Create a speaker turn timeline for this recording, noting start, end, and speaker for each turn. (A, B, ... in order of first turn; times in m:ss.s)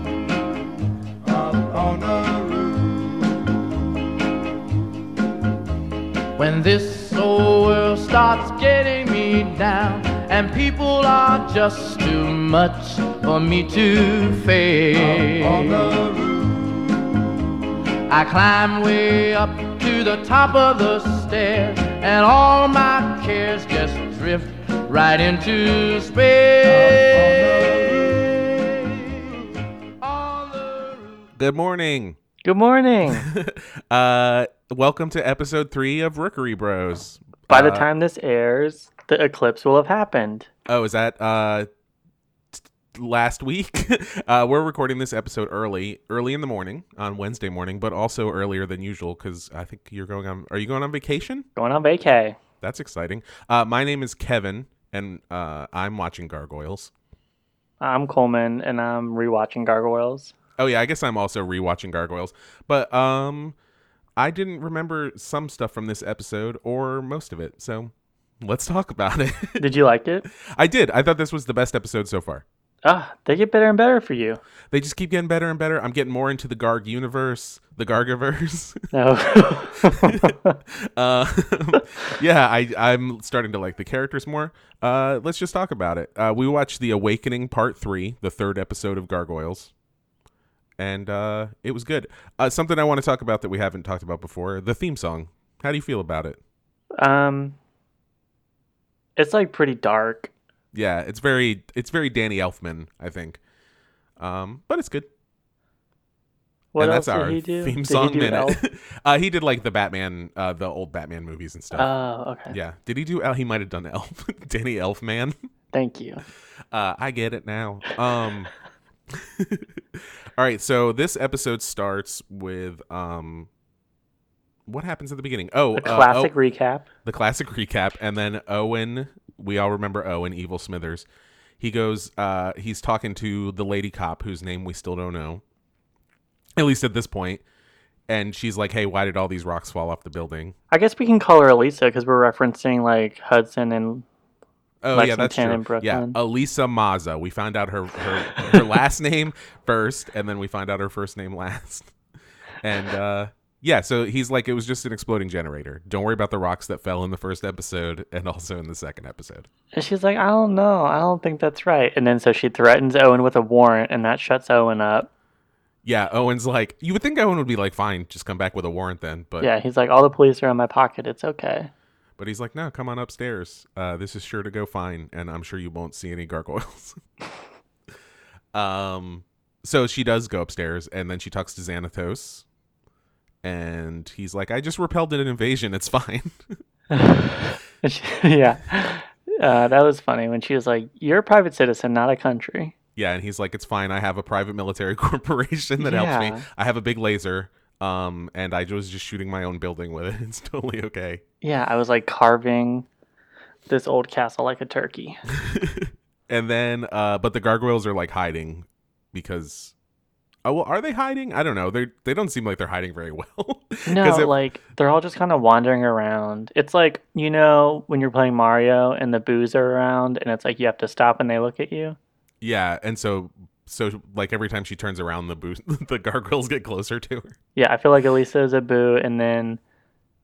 0:01.2-0:03.2 A
0:06.4-0:16.8 A
0:18.1-0:29.5 A
0:30.0-0:31.2 A
0:31.4-0:32.2 B
0:32.4-0:33.3 C
0:33.1-0:37.9 B
0:37.5-0:40.5 C
0:40.7-0:41.7 B
0:42.6-0:51.5 B
0:51.6-0:52.4 C
0:52.6-0:56.9 B
0:57.8-1:00.3 C
1:00.6-1:03.6 B
1:04.2-1:09.6 B
1:09.6-1:10.3 C
1:10.4-1:12.4 B
1:12.8-1:14.4 C
1:14.7-1:29.7 B
1:18.9-1:20.6 C
1:30.8-1:36.4 B
1:37.0-1:37.6 C
1:39.2-1:40.3 C
1:40.7-1:43.4 B
1:44.2-1:45.1 B
1:46.7-1:48.6 C
1:46.8-1:51.9 B
1:51.7-1:52.6 C
1:52.5-1:55.4 B
1:55.7-1:56.2 C
1:56.7-1:58.5 B
1:59.1-2:03.5 B
2:04.7-2:06.3 B
2:05.8-2:06.9 C
2:07.0-2:11.1 B
2:11.6-2:15.4 B
2:16.6-2:17.4 B
2:18.1-2:20.6 B
2:20.7-2:24.1 C
2:24.8-2:31.9 B
2:24.9-2:26.2 C
2:28.3-2:28.6 C
2:32.6-2:39.5 B
2:39.7-2:45.1 C
2:45.8-2:49.5 B
2:49.4-2:51.7 C
2:52.2-2:57.0 B
2:58.5-3:02.4 B
3:03.4-3:06.5 B
3:06.9-3:12.7 C
3:13.0-3:21.2 B
3:15.8-3:16.5 C
3:21.4-3:22.9 C
3:23.7-3:25.2 C
3:25.4-3:29.8 B
3:30.4-3:34.3 B
3:33.9-3:42.0 C
3:42.4-3:47.4 B
3:47.6-3:49.6 C